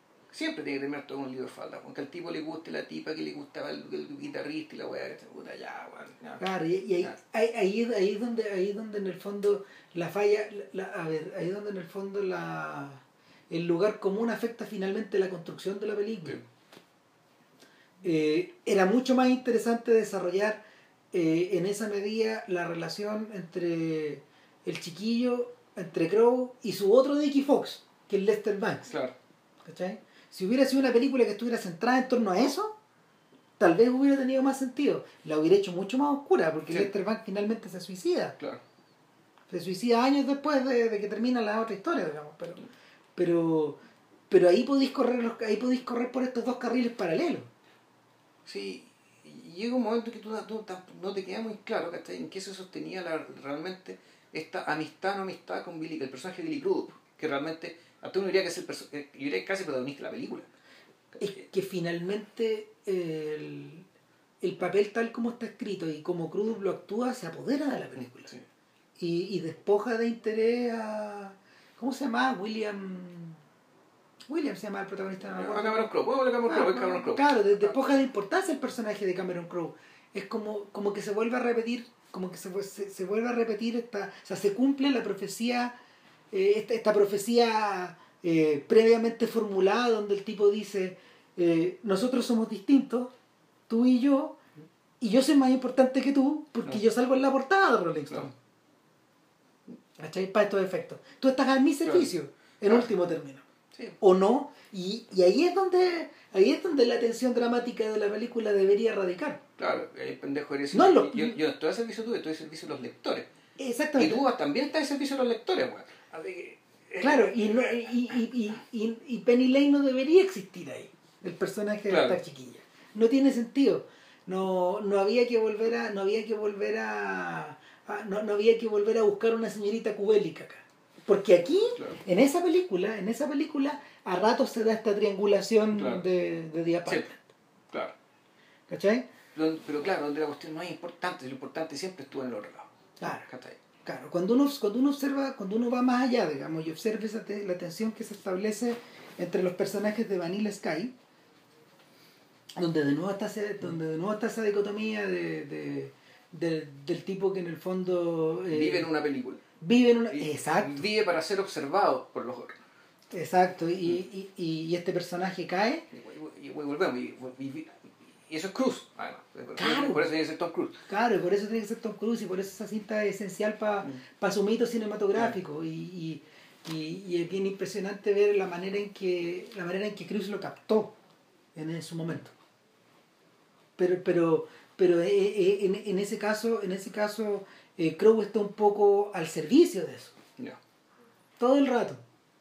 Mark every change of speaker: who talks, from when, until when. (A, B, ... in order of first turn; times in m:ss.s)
0:00.3-0:06.4 A
0:06.4-0:16.4 B
0:18.0-0:20.6 B
0:21.1-0:28.9 B
0:28.9-0:29.1 A
0:29.6-0:32.7 B
0:33.6-0:38.4 B
0:39.5-0:42.6 B
0:43.2-0:47.5 B
0:48.4-1:00.5 A
1:01.1-1:01.4 A
1:01.2-1:03.8 B
1:04.4-1:08.3 B
1:09.0-1:13.4 B
1:14.3-1:15.9 B
1:15.3-1:17.3 A
1:16.4-1:25.7 B
1:26.3-1:33.1 B
1:33.7-1:34.4 B
1:35.0-1:38.4 B
1:40.0-1:43.4 B
1:44.0-1:49.4 B
1:49.6-1:53.3 A
1:50.7-1:51.4 B
1:53.6-1:54.2 B
1:54.0-1:57.9 A
1:57.0-2:17.3 B
2:01.9-2:02.2 A
2:15.8-2:16.0 A
2:18.7-2:19.0 B
2:19.3-2:23.6 A
2:23.0-2:23.3 B
2:23.8-2:30.9 B
2:32.6-2:38.9 B
2:38.5-2:39.4 A
2:39.6-2:40.8 B
2:40.1-2:42.6 A
2:43.1-2:45.9 B
2:45.9-2:50.8 A
2:49.6-2:50.1 B
2:50.9-3:00.9 B
3:01.6-3:02.3 B
3:03.8-3:10.2 B
3:11.4-3:12.0 B